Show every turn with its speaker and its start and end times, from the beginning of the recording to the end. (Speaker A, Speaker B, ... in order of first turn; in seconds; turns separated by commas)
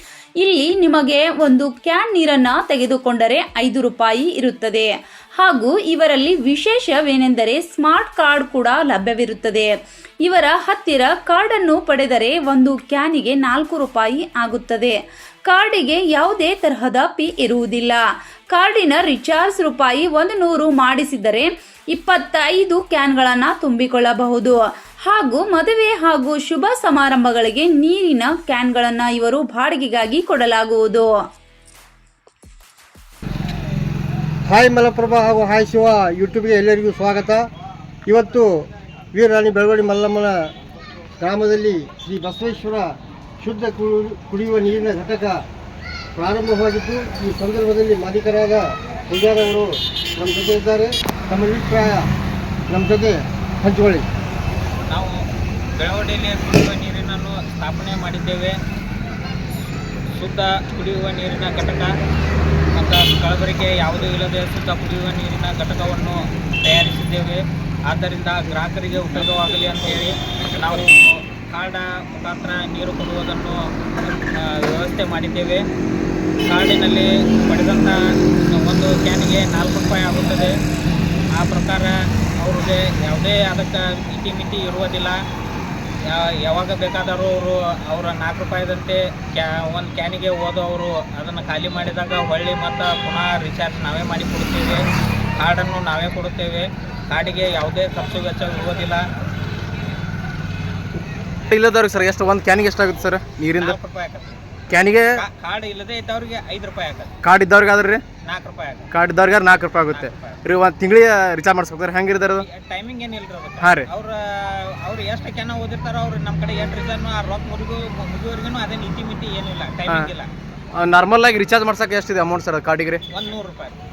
Speaker A: 0.4-9.7, Speaker A: 10.2-31.1, Speaker B: 34.5-37.5, Speaker B: 38.1-40.5, Speaker B: 41.2-45.5, Speaker B: 46.1-52.1, Speaker B: 52.7-54.1, Speaker C: 54.9-58.6, Speaker C: 60.2-61.9, Speaker C: 62.8-75.7, Speaker C: 76.4-80.6, Speaker C: 81.3-85.2, Speaker C: 86.0-99.0, Speaker D: 101.5-103.8, Speaker C: 103.5-104.4, Speaker D: 104.7-105.1, Speaker C: 105.2-107.1, Speaker D: 107.2-108.0, Speaker C: 108.2-108.9, Speaker D: 108.9-112.5, Speaker C: 109.9-110.4, Speaker C: 112.3-120.3, Speaker D: 113.6-113.9, Speaker D: 120.8-123.0, Speaker C: 123.1-123.8